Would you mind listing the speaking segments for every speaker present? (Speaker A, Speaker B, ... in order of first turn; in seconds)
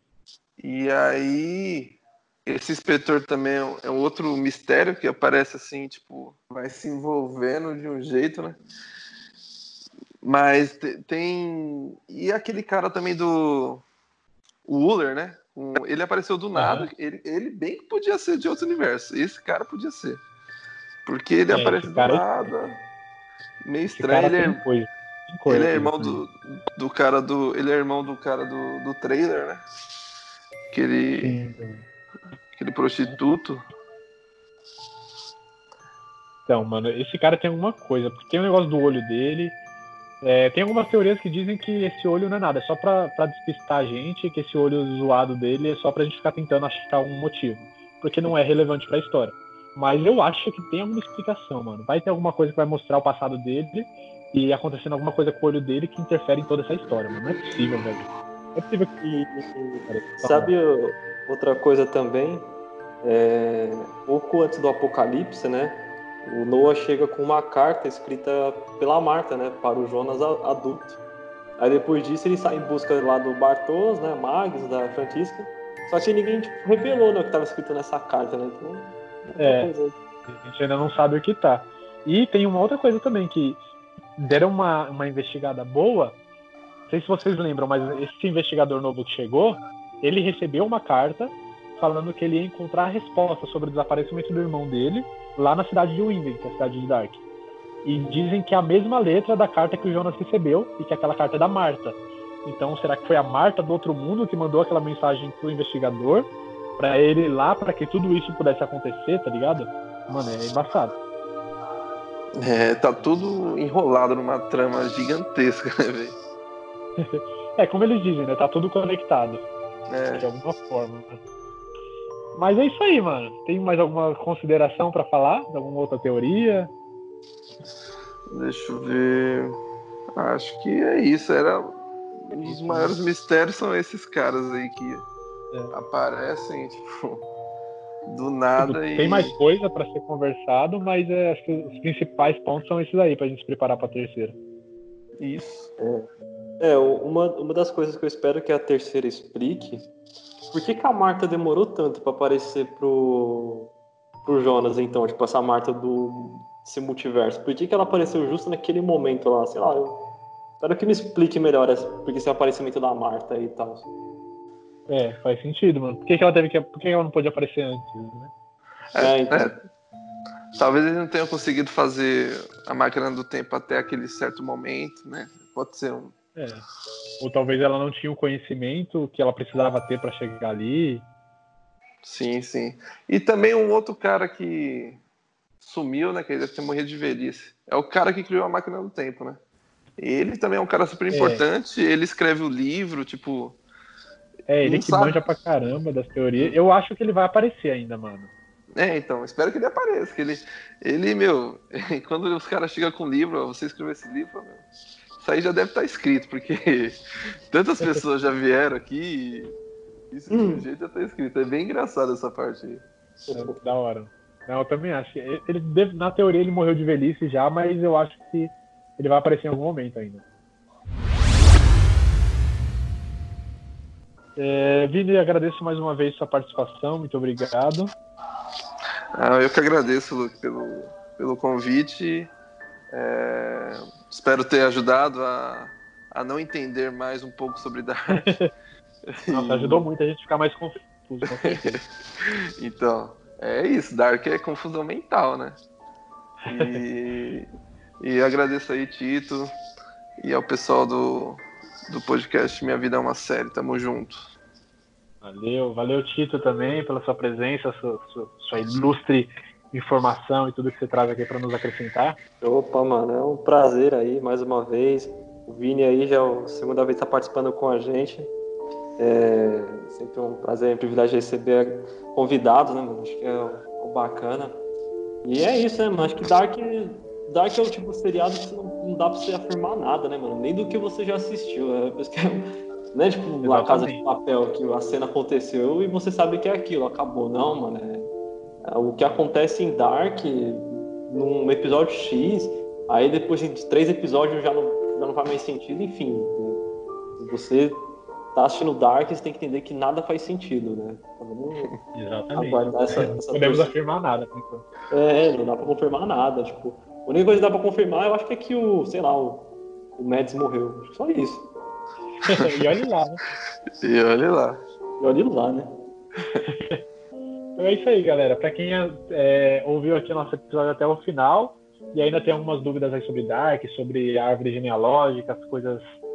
Speaker A: 0.6-8.6, 10.2-13.8, 14.7-20.2, 21.1-22.8, 23.6-24.6, 25.5-29.6, 30.7-31.4, 32.6-33.6, 112.4-116.2, 119.9-120.3, 128.3-129.6, 130.2-131.8, 132.3-135.1, 135.7-137.3, 138.1-139.4, 145.2-145.7, 168.9-169.5, 170.6-176.2, 182.0-185.0, 185.6-189.4, 190.0-193.6, 194.6-195.2, 198.8-204.6, 205.2-207.0, 207.5-209.6, 210.1-212.8, 229.2-232.3, 232.9-238.3, 239.1-239.9, 241.3-245.6, 246.5-247.5, 248.0-249.5, 250.2-254.3, 313.8-314.6
Speaker B: 16.6-16.9, 21.5-22.5, 23.9-26.2, 31.2-31.9, 36.5-39.6, 40.2-59.0, 59.9-60.5, 79.4-79.7, 80.3-83.6, 84.2-86.2, 86.9-97.2, 97.8-111.0, 117.0-119.5, 120.1-121.2, 122.3-126.7, 132.3-132.9, 138.6-144.4, 164.9-168.3, 176.3-176.7, 177.2-181.1, 191.1-191.4, 194.5-198.3, 213.3-220.2, 224.4-227.9, 238.2-238.5, 239.3-241.8, 246.5-246.8, 255.2-262.2, 283.4-284.0, 301.9-304.7, 312.2-313.2, 316.4-316.8, 317.6-325.9
Speaker C: 59.0-62.5, 63.0-71.0, 71.6-80.0, 145.8-146.1, 146.6-149.9, 150.5-153.7, 154.2-163.9, 169.0-169.6, 210.3-210.7, 213.2-213.6, 262.4-268.3, 269.0-274.6, 275.2-288.1, 288.6-296.6, 297.2-297.8, 298.3-301.7, 302.4-303.8, 304.9-311.5, 315.0-315.7